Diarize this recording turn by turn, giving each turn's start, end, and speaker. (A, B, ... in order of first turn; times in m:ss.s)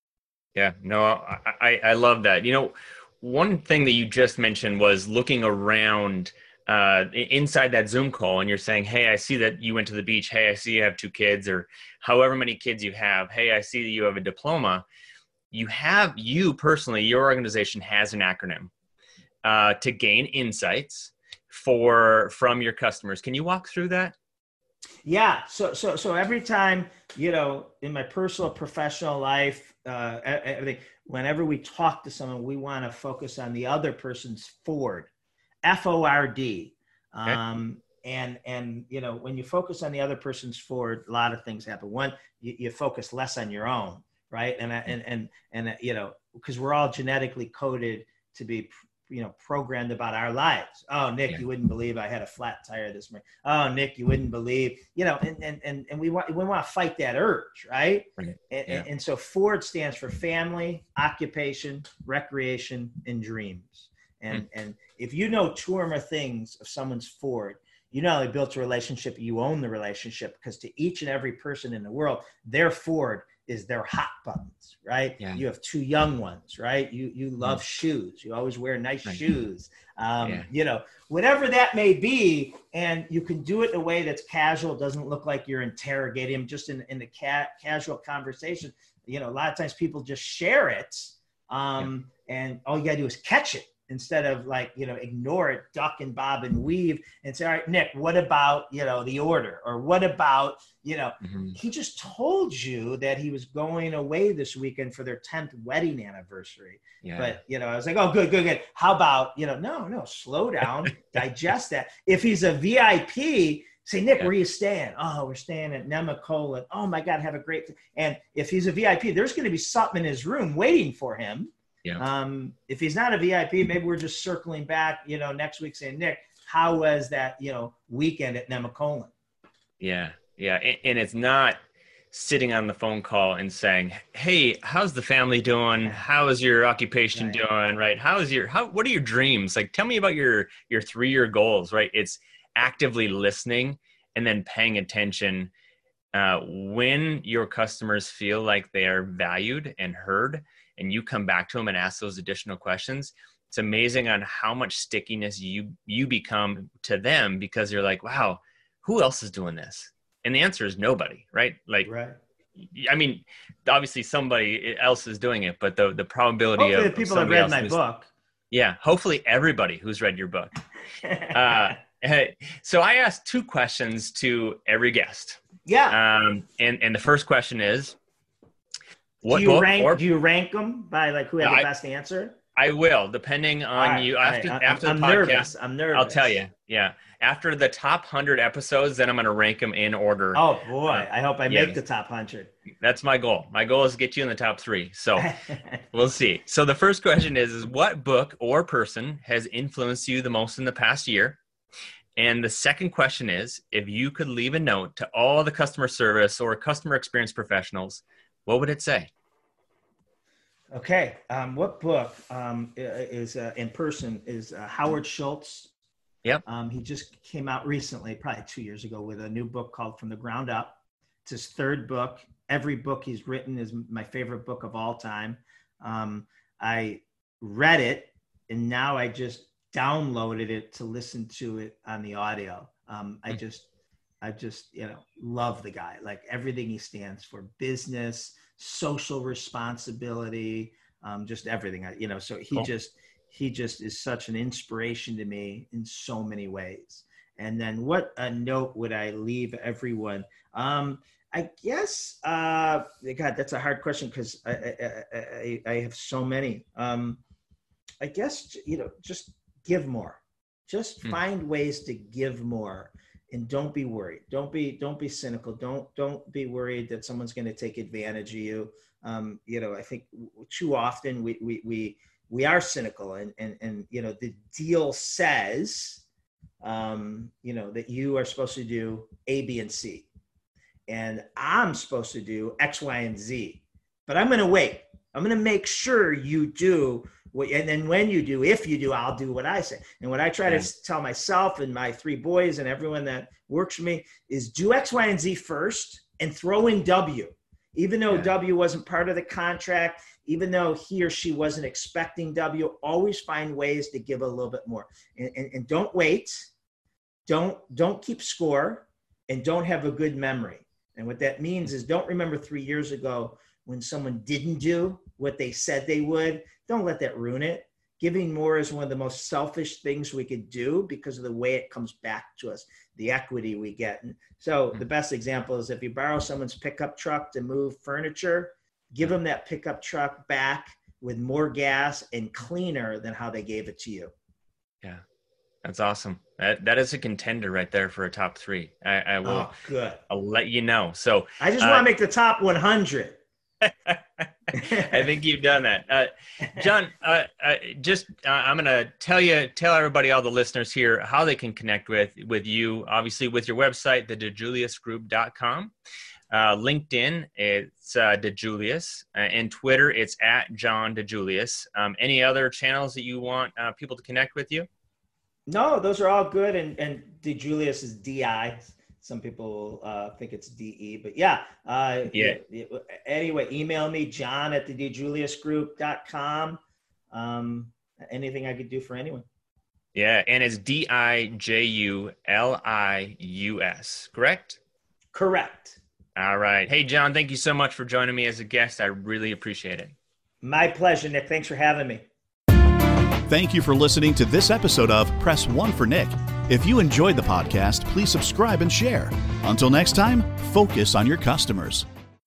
0:00.5-0:14.8 A
0:15.5-0:18.7 A
0:19.4-0:24.1 A
0:25.0-0:35.1 B
0:35.6-2:09.1 B
0:58.2-0:58.9 A
1:20.2-1:20.5 A
1:41.2-1:41.5 A
1:47.0-1:47.4 A
2:09.8-2:11.6 A
2:12.1-2:25.5 A
2:17.1-2:17.4 B
2:26.1-2:41.9 A
2:41.8-2:42.2 B
2:42.6-2:47.8 A
2:46.6-2:48.1 B
2:48.5-2:50.5 A
2:51.0-2:51.7 B
2:51.3-2:58.0 A
2:55.6-2:56.0 B
2:59.2-3:00.0 A
2:59.2-3:02.4 B
3:02.6-3:11.8 A
3:03.7-3:06.4 B
3:10.3-3:12.5 B
3:12.8-3:15.3 A
3:15.2-3:15.8 B
3:15.9-3:21.4 A
3:22.2-3:29.1 A
3:30.7-3:35.7 B
3:36.4-3:53.6 B
3:54.2-4:17.2 B
4:18.0-4:36.0 B
4:36.6-4:40.0 B
4:40.9-5:06.5 B
5:07.3-5:34.1 B
5:35.6-5:39.5 A
5:39.2-5:40.0 B
5:40.1-5:41.9 A
5:41.4-5:43.2 B
5:43.6-5:55.7 A
5:44.6-5:44.8 B
5:56.3-6:04.7 A
6:05.5-6:16.6 B
6:12.1-6:12.4 A
6:17.1-6:19.2 B
6:19.9-6:24.6 A
6:25.1-6:25.8 B
6:26.2-6:29.9 A
6:30.4-6:32.0 B
6:33.2-6:41.8 C